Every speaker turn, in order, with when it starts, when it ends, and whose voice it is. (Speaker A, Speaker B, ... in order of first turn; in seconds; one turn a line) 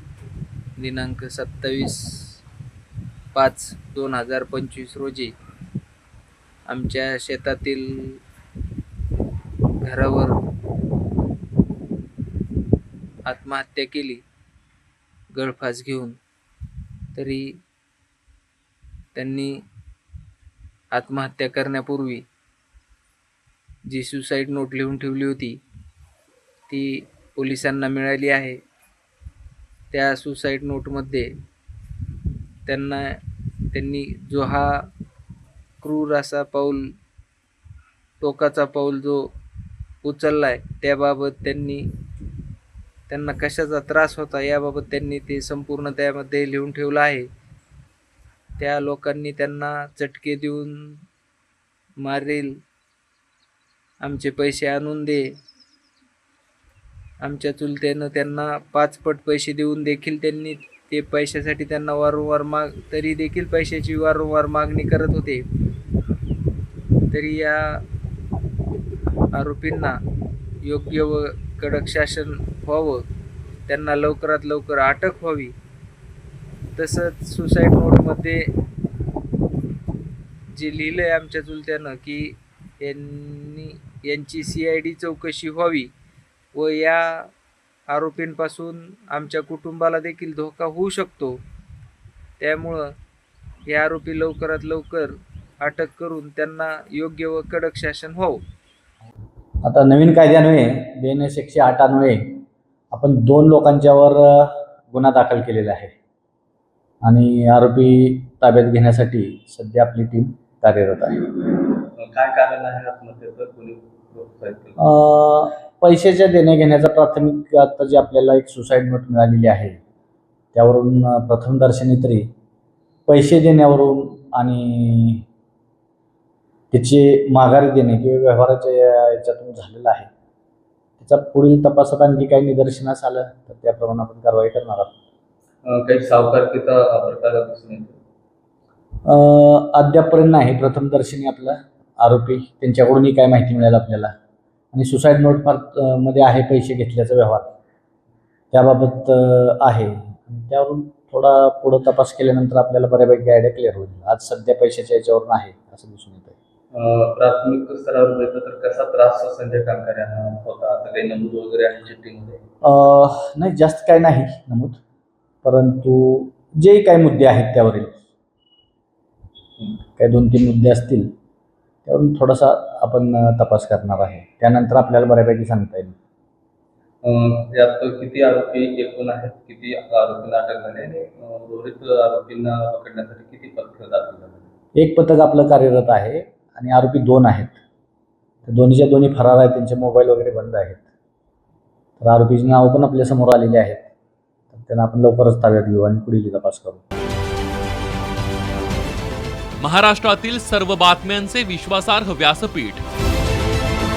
Speaker A: 0.8-2.4
Speaker A: 3.3-5.3
Speaker A: 6.7-8.2
Speaker A: 9.8-10.4
Speaker A: 13.3-14.2
Speaker A: 15.3-16.2
Speaker A: 17.1-17.6
Speaker A: 19.1-19.6
Speaker A: 20.9-22.2
Speaker A: 23.9-25.6
Speaker A: 26.7-28.6
Speaker A: 29.9-31.3
Speaker A: 32.7-33.2
Speaker A: 33.7-34.9
Speaker A: 35.8-36.9
Speaker A: 38.2-39.3
Speaker A: 40.0-41.9
Speaker A: 43.1-47.3
Speaker A: 48.6-51.0
Speaker A: 52.0-52.6
Speaker A: 54.0-55.3
Speaker A: 57.2-65.5
Speaker A: 67.1-67.8
Speaker A: 69.3-70.0
Speaker A: 70.6-73.0
Speaker A: 73.7-75.5
Speaker A: 76.8-78.5
Speaker A: 80.5-85.9
Speaker A: 86.5-87.3
Speaker A: 87.9-91.4
Speaker A: 92.4-92.9
Speaker A: 93.7-98.4
Speaker B: 99.7-105.9
Speaker B: 107.0-111.5
Speaker C: 111.8-114.8
Speaker B: 114.8-119.8
Speaker B: 120.5-122.3
Speaker B: 123.1-125.2
Speaker B: 126.7-130.1
Speaker B: 131.0-134.9
Speaker C: 135.6-138.0
Speaker B: 139.1-144.1
Speaker B: 144.7-147.6
Speaker B: 148.5-156.4
Speaker C: 156.7-162.4
Speaker B: 162.6-164.8
Speaker B: 165.4-168.1
Speaker B: 169.9-171.1
Speaker B: 171.9-175.9
Speaker C: 177.0-184.5
Speaker B: 184.8-187.6
Speaker B: 188.5-190.9
Speaker B: 192.0-193.9
Speaker B: 194.5-196.8
Speaker D: 199.6-202.8